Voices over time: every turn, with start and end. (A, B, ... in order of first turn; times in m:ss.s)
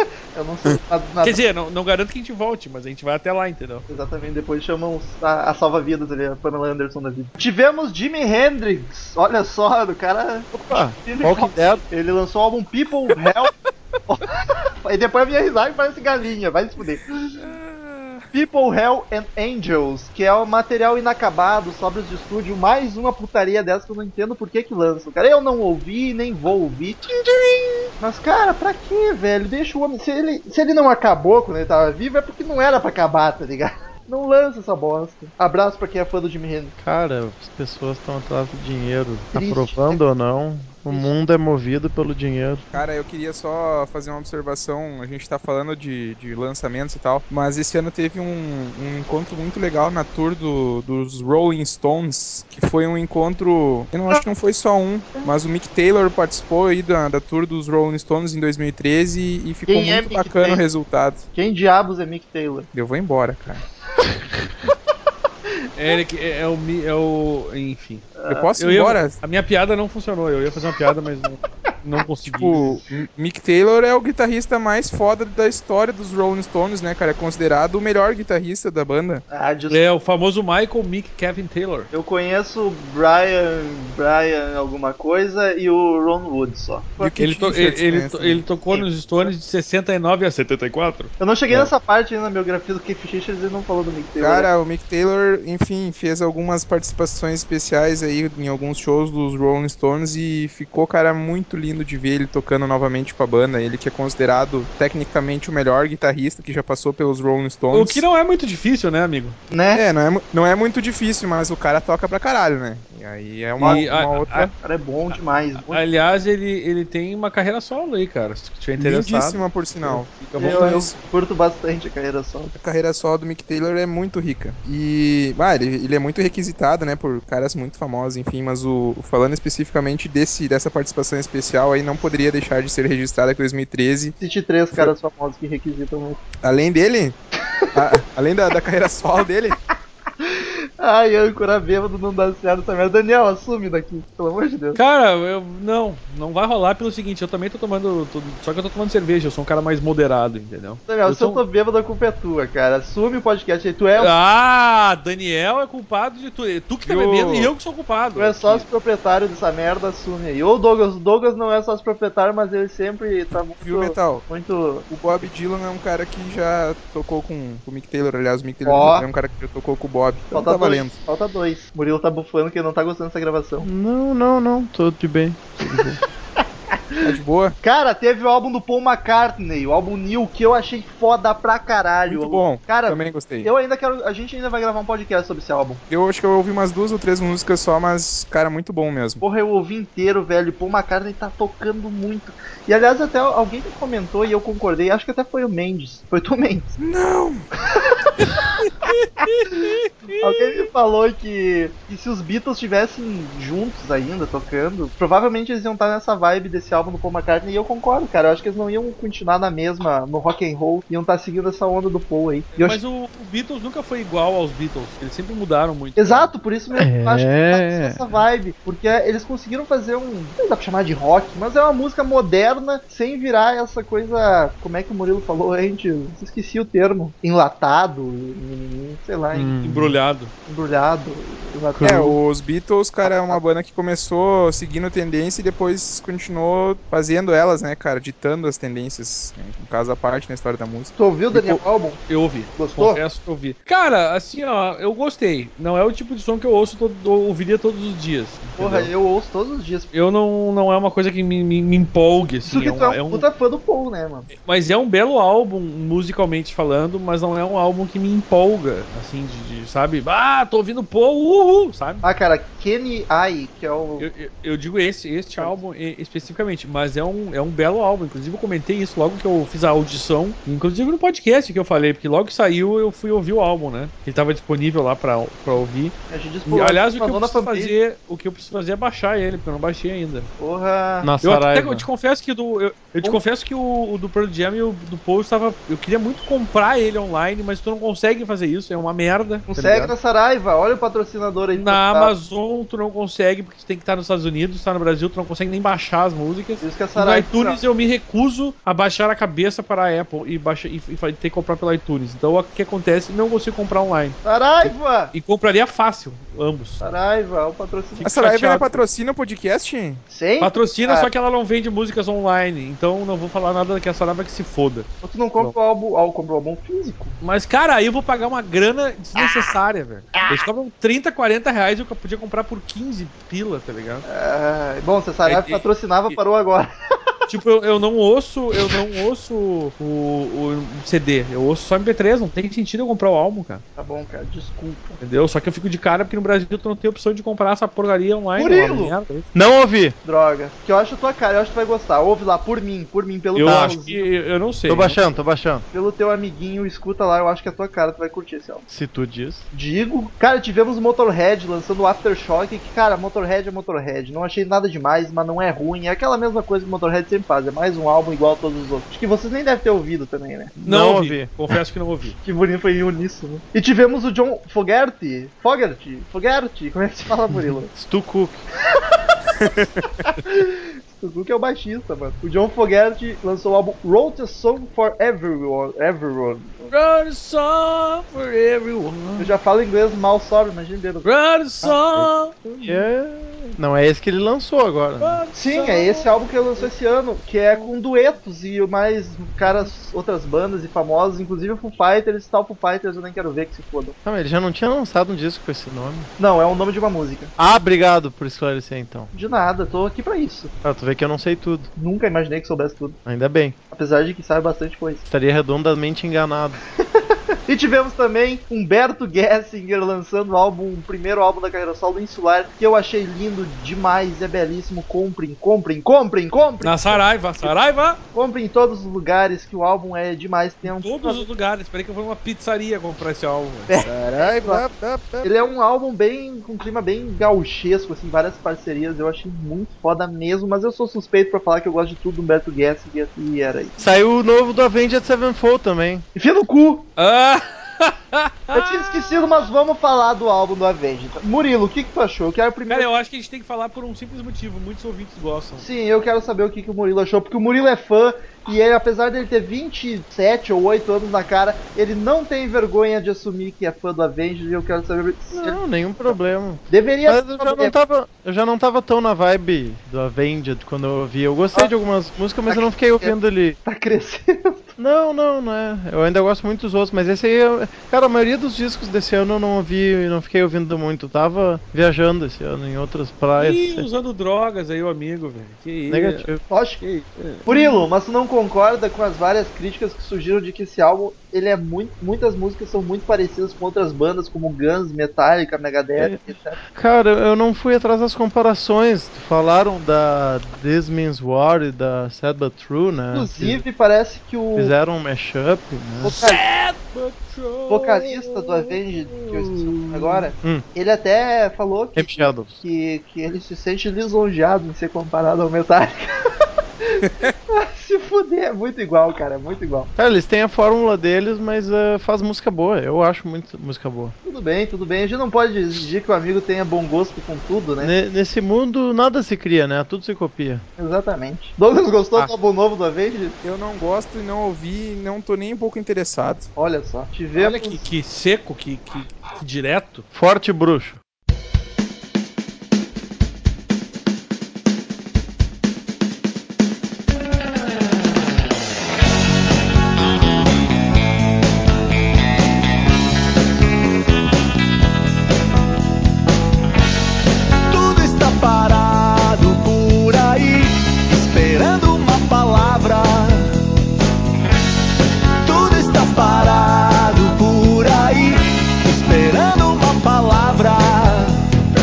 0:00.3-0:01.4 A
0:01.2-0:03.9 B
0:03.9-0:13.5 A
0:10.5-0:11.8 C
0:14.1-0:17.2 A
0:18.3-0:27.0 A
0:27.1-0:27.9 C
0:28.0-0:36.7 A
0:36.8-0:42.7 C
0:39.3-0:40.0 A
0:42.7-1:01.2 D
0:59.7-1:00.6 A
1:01.4-1:02.7 A
1:02.7-1:03.6 D
1:05.8-1:12.7 B
1:08.2-1:08.5 A
1:08.3-1:09.2 D
1:12.3-1:19.2 D
1:19.3-1:19.8 A
1:19.7-1:21.9 B
1:21.9-1:27.1 A
1:27.0-1:28.4 D
1:27.2-1:31.7 B
1:28.7-1:29.3 A
1:31.2-1:34.5 A
1:34.2-1:48.0 D
1:47.7-1:49.4 B
1:49.5-1:49.8 A
1:49.7-1:54.5 D
1:53.6-1:53.9 A
1:53.6-1:54.5 B
1:54.6-1:55.8 A
1:55.1-2:00.8 B
1:58.8-2:01.0 D
2:00.4-2:02.6 A
2:02.6-2:14.2 D
2:14.2-2:16.2 A
2:16.4-2:17.2 D
2:17.7-2:19.6 D
2:20.2-2:24.8 A
2:24.8-2:31.4 B
2:30.9-2:34.1 A
2:34.0-2:38.7 B
2:36.9-2:37.5 D
2:38.2-2:44.9 A
2:43.6-2:44.3 D
2:44.9-2:51.0 D
2:48.7-2:49.1 A
2:50.3-2:53.7 A
2:53.6-2:56.0 C
2:56.7-3:05.8 A
2:57.0-2:57.6 D
3:02.1-3:03.5 D
3:05.9-3:09.2 D
3:09.2-3:16.8 A
3:16.8-3:17.4 D
3:17.8-3:18.4 A
3:18.9-3:20.5 B
3:20.2-3:32.8 A
3:32.6-3:36.3 B
3:36.0-3:49.6 A
3:36.8-3:38.2 C
3:49.3-3:50.0 C
3:49.6-3:50.3 B
3:50.5-3:52.2 A
3:51.7-3:52.2 C
3:51.8-4:01.0 D
4:01.0-4:02.0 A
4:01.3-4:08.9 B
4:02.6-4:03.0 A
4:08.6-4:09.9 A
4:09.9-4:13.3 B
4:12.4-4:14.3 A
4:14.3-4:22.0 B
4:22.0-4:24.1 A
4:24.0-4:36.0 B
4:36.1-4:37.8 A
4:36.5-4:40.3 B
4:40.4-4:41.1 A
4:41.0-4:41.9 C
4:41.2-4:49.9 B
4:49.5-4:52.1 A
4:51.6-5:06.8 B
4:56.6-4:57.6 A
5:04.2-5:05.1 A
5:06.8-5:08.1 A
5:08.0-5:08.8 B
5:08.0-5:10.0 D
5:10.1-5:11.1 A
5:10.4-5:15.5 B
5:15.0-5:17.2 A
5:17.2-5:24.0 B
5:24.1-5:26.7 A
5:25.2-5:26.2 B
5:27.3-5:33.6 B
5:33.8-5:35.0 A
5:35.0-5:39.3 B
5:38.4-5:38.9 A
5:39.3-5:40.0 C
5:40.0-5:44.1 A
5:43.3-5:45.0 B
5:43.4-5:43.8 C
5:44.7-5:45.7 C
5:45.7-5:48.7 A
5:48.7-5:49.5 C
5:49.5-6:00.5 A
6:00.6-6:01.3 C
6:00.6-6:02.2 B
6:02.2-6:07.7 A
6:07.7-6:08.4 C
6:10.2-6:16.7 A
6:16.7-6:19.3 B
6:19.2-6:21.1 A
6:21.0-6:22.4 B
6:22.6-6:25.2 C
6:25.0-6:26.7 B
6:25.3-6:34.0 A
6:34.0-6:36.1 C
6:36.2-6:37.3 A
6:37.4-6:39.1 C
6:39.1-6:40.5 A
6:40.6-6:41.7 C
6:41.8-6:43.0 A
6:43.0-6:43.6 C
6:43.7-6:45.0 A
6:45.0-6:46.6 C
6:47.5-6:57.5 A
6:56.6-6:58.0 B
6:58.1-7:01.3 A
7:00.6-7:03.7 B
7:03.7-7:04.6 A
7:03.8-7:05.2 E
7:04.5-7:05.0 C
7:05.2-7:13.8 A
7:13.8-7:16.0 C
7:16.2-7:16.9 A
7:17.0-7:19.0 B
7:18.5-7:22.9 A
7:22.7-7:25.6 B
7:25.6-7:36.2 A
7:35.3-7:43.6 C
7:36.7-7:37.7 A
7:42.5-7:44.8 A
7:44.8-7:53.9 C
7:53.4-7:56.3 B
7:55.9-7:56.4 C
7:56.5-8:06.6 A
7:57.2-7:57.5 B
8:06.0-8:13.6 C
8:13.1-8:14.7 A
8:14.6-8:16.2 C
8:16.0-8:16.4 A
8:16.2-8:20.2 B
8:17.7-8:26.1 A
8:22.0-8:22.6 C
8:26.8-8:29.9 A
8:30.0-8:34.2 C
8:34.2-8:37.9 A
8:37.8-8:40.6 C
8:40.8-8:43.4 A
8:43.4-8:46.5 D
8:46.6-8:47.8 A
8:47.4-8:50.1 B
8:50.1-8:51.0 C
9:07.7-9:13.5 E
9:15.4-9:21.3 E